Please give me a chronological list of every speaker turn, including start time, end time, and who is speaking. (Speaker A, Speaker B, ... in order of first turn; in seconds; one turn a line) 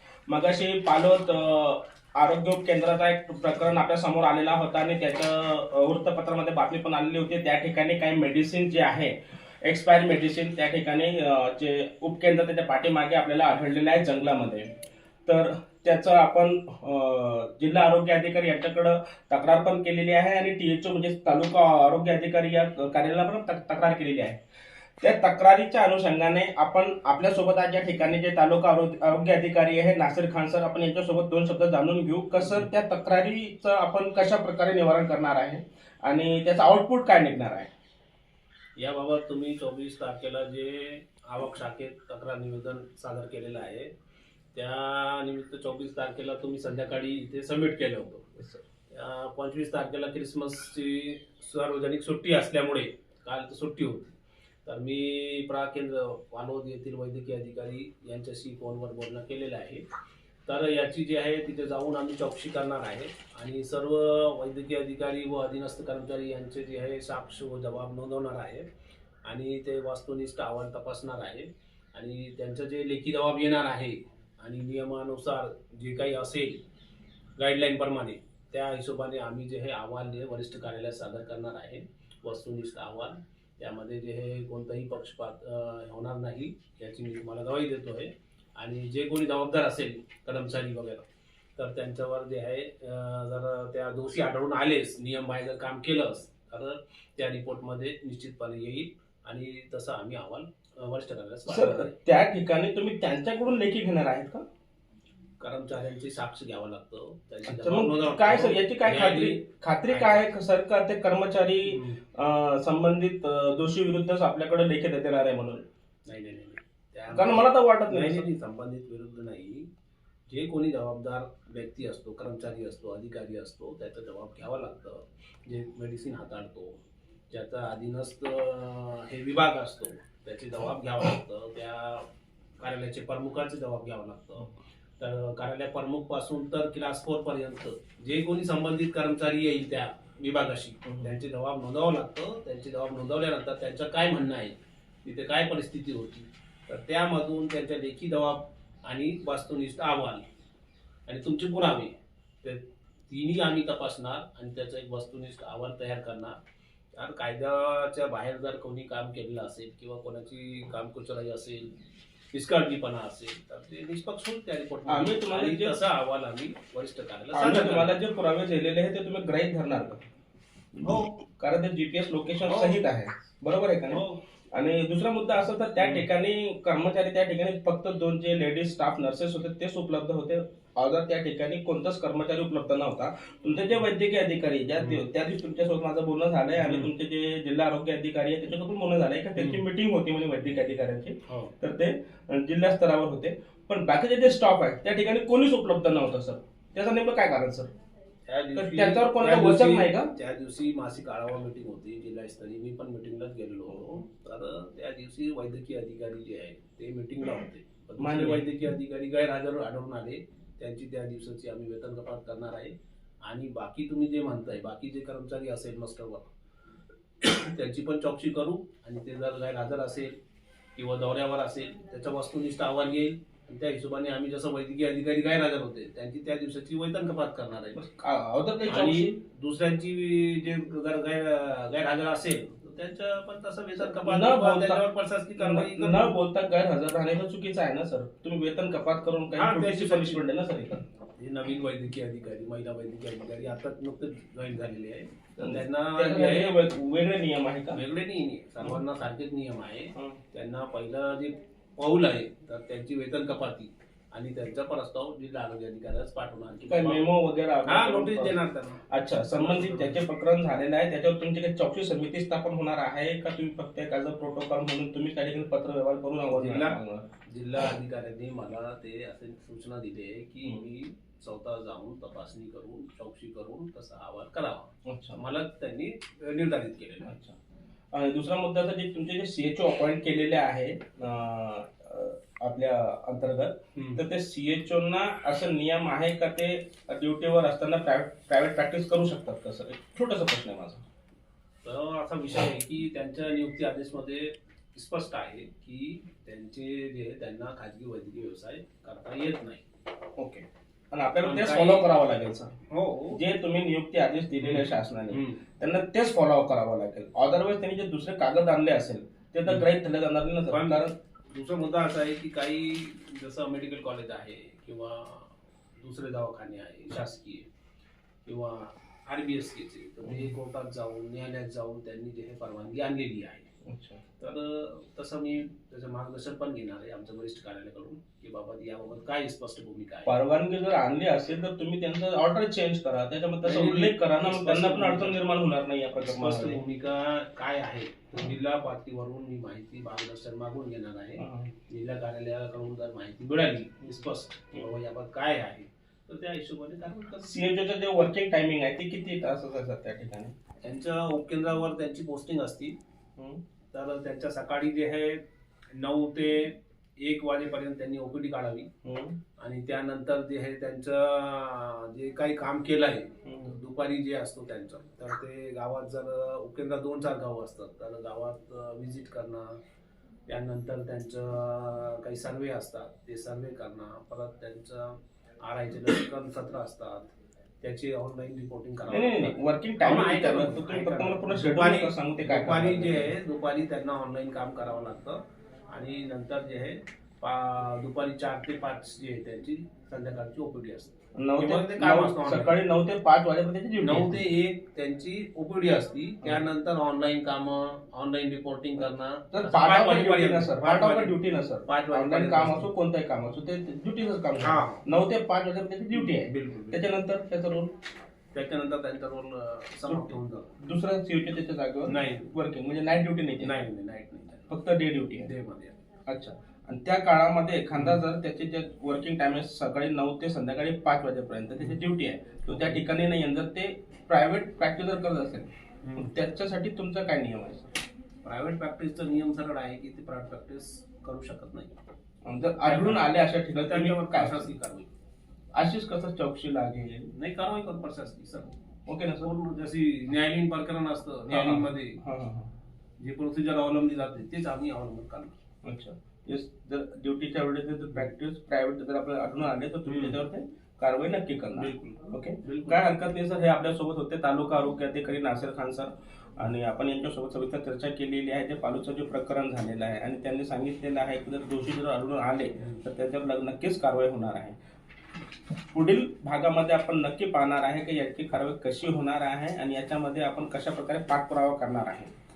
Speaker A: 0.3-14.7
Speaker A: 15.3-24.4
Speaker A: 25.0-37.7
Speaker B: 32.4-32.7
Speaker B: 38.8-43.9
Speaker B: 44.5-54.1
Speaker B: 54.6-59.9
Speaker B: 60.5-68.7
Speaker B: 69.2-76.6
Speaker B: 77.4-91.1
Speaker B: 91.6-101.9
Speaker A: 101.5-104.4
Speaker B: 105.4-110.3
Speaker A: 107.5-115.6
Speaker B: 111.7-112.0
Speaker B: 116.1-119.7
Speaker A: 117.1-118.3
Speaker B: 120.3-126.8
Speaker B: 127.3-132.1
Speaker B: 132.6-150.2
Speaker A: 140.8-141.2
Speaker B: 151.1-156.4
Speaker B: 156.9-161.7
Speaker B: 162.3-167.9
Speaker A: 164.9-165.8
Speaker A: 167.3-170.0
Speaker B: 170.8-171.2
Speaker A: 171.4-197.7
Speaker B: 172.4-172.8
Speaker B: 173.9-174.2
Speaker B: 175.8-176.1
Speaker B: 184.8-185.0
Speaker B: 186.6-186.9
Speaker B: 189.4-189.6
Speaker B: 191.3-191.5
Speaker B: 198.3-212.7
Speaker A: 198.6-200.1
Speaker A: 208.0-208.4
Speaker B: 213.3-216.3
Speaker B: 217.2-220.1
Speaker B: 220.8-227.8
Speaker A: 227.8-229.2
Speaker B: 228.7-236.1
Speaker A: 234.0-234.8
Speaker A: 235.4-240.8
Speaker B: 239.3-240.3
Speaker B: 241.2-246.6
Speaker A: 245.4-247.8
Speaker B: 247.7-257.1
Speaker A: 256.7-258.4
Speaker B: 257.7-260.0
Speaker A: 258.9-267.1
Speaker B: 266.3-277.1
Speaker A: 274.9-275.2
Speaker A: 277.0-277.4
Speaker A: 277.9-290.8
Speaker B: 283.8-284.0
Speaker B: 291.6-299.6
Speaker A: 300.2-302.5
Speaker B: 301.2-301.9
Speaker B: 302.7-303.2
Speaker A: 303.1-310.9
Speaker B: 304.4-305.4
Speaker B: 310.5-317.5
Speaker B: 318.3-323.5
Speaker A: 320.0-320.3
Speaker A: 323.6-324.0
Speaker B: 324.2-330.1
Speaker A: 330.1-336.6
Speaker B: 333.4-335.2
Speaker B: 336.0-347.4
Speaker A: 341.2-341.5
Speaker A: 347.2-350.4
Speaker B: 350.6-352.8
Speaker B: 353.7-358.7
Speaker A: 358.8-359.2
Speaker B: 359.4-369.5
Speaker A: 363.2-363.6
Speaker B: 370.3-392.6
Speaker A: 378.9-383.1
Speaker A: 391.2-394.2
Speaker B: 393.8-401.1
Speaker A: 399.3-407.7
Speaker B: 401.7-402.7
Speaker B: 404.4-404.8
Speaker B: 405.9-406.9
Speaker B: 408.3-410.6
Speaker A: 409.9-413.6
Speaker B: 411.9-412.3
Speaker B: 413.4-414.5
Speaker A: 414.5-415.3
Speaker B: 415.2-415.8
Speaker A: 416.1-427.7
Speaker B: 417.8-418.0
Speaker B: 422.5-422.8
Speaker B: 425.8-426.1
Speaker B: 428.2-431.8
Speaker A: 432.2-434.5
Speaker B: 432.6-433.1
Speaker B: 433.6-434.9
Speaker A: 435.5-437.1
Speaker B: 437.1-438.6
Speaker A: 438.9-439.3
Speaker B: 439.2-442.0
Speaker A: 441.3-442.5
Speaker B: 443.0-445.3
Speaker A: 445.6-464.6
Speaker B: 449.9-450.2
Speaker B: 451.6-452.8
Speaker B: 462.6-462.8
Speaker A: 465.7-472.1